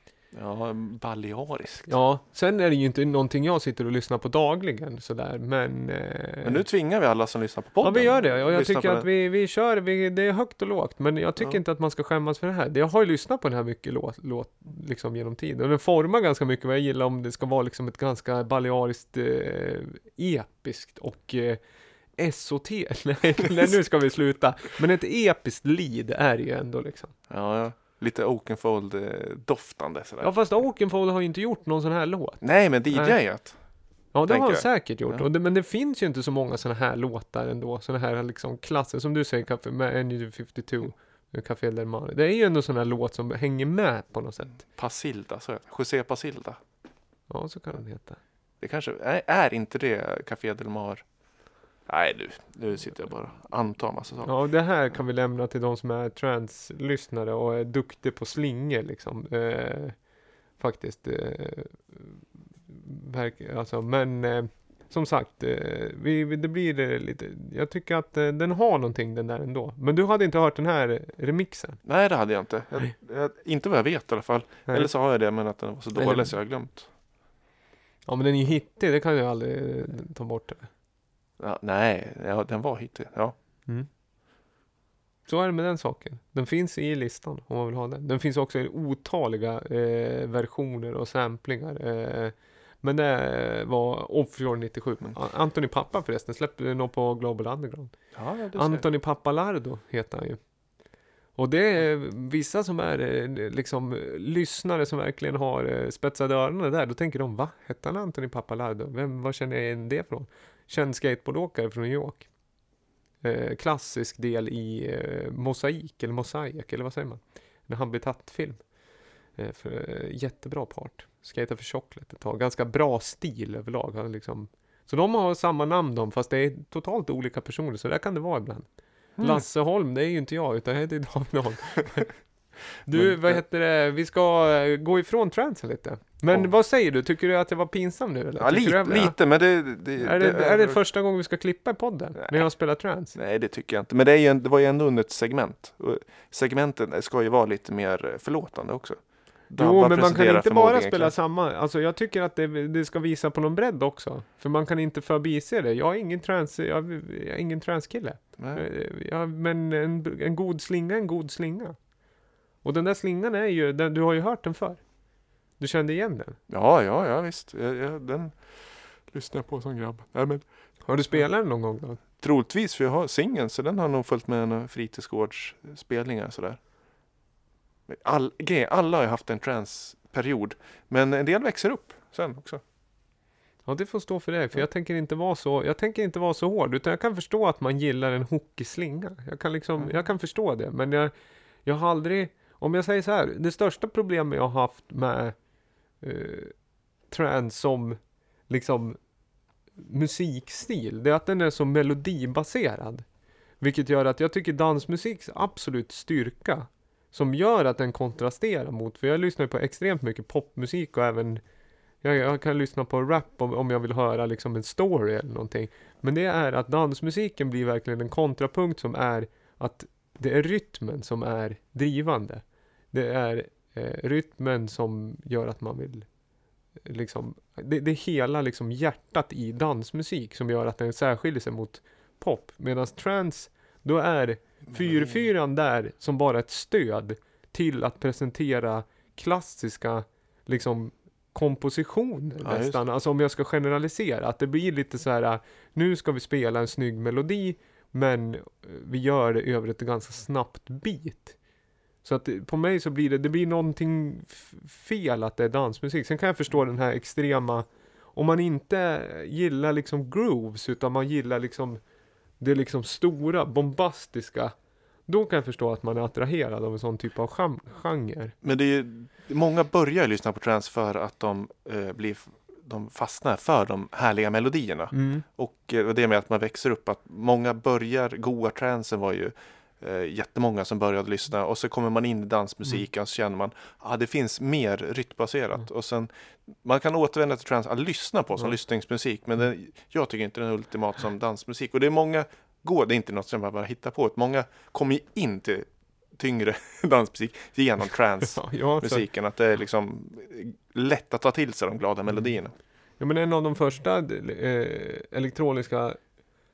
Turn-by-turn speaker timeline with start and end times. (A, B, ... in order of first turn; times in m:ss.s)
0:00.3-0:01.9 A
0:01.9-0:06.6 B
0:06.4-0:09.1 A
0:07.8-0:21.6 B
0:22.2-0:27.1 B
0:27.3-0:30.4 A
0:30.2-0:33.2 B
0:32.4-0:33.6 A
0:34.1-0:44.6 B
0:34.3-0:35.3 A
0:44.6-0:46.6 A
0:47.3-0:48.2 B
0:48.6-0:51.0 A
0:51.9-0:54.3 A
0:54.2-1:00.0 B
1:00.6-1:11.8 B
1:11.8-1:16.9 A
1:16.0-1:16.4 B
1:18.1-1:20.7 B
1:21.4-1:23.4 A
1:25.3-1:37.9 B
1:38.2-1:38.8 A
1:38.5-1:40.4 B
1:41.4-1:52.3 B
1:53.2-1:58.6 B
1:59.4-2:08.7 B
2:09.2-2:09.4 A
2:09.2-2:12.1 B
2:12.9-2:19.2 B
2:12.9-2:13.4 A
2:18.4-2:20.8 A
2:20.0-2:23.2 B
2:22.2-2:22.5 A
2:23.1-2:31.1 A
2:29.6-2:41.8 B
2:38.4-2:38.6 A
2:42.6-2:44.8 B
2:45.6-2:46.4 B
2:46.5-2:50.4 A
2:50.8-2:52.0 B
2:52.2-2:56.6 A
2:57.9-3:02.6 A
3:03.7-3:11.1 B
3:09.8-3:10.1 A
3:11.6-3:15.4 B
3:16.0-3:16.5 B
3:17.1-3:19.0 B
3:19.8-3:23.0 B
3:23.6-3:31.4 B
3:32.0-3:46.1 B
3:46.8-4:11.4 B
3:54.7-3:55.2 A
4:02.4-4:02.8 A
4:12.0-4:21.8 B
4:22.4-4:24.5 B
4:25.1-4:28.4 B
4:28.4-5:02.5 A
4:34.9-4:35.2 B
4:58.3-4:59.1 B
5:03.0-5:06.0 B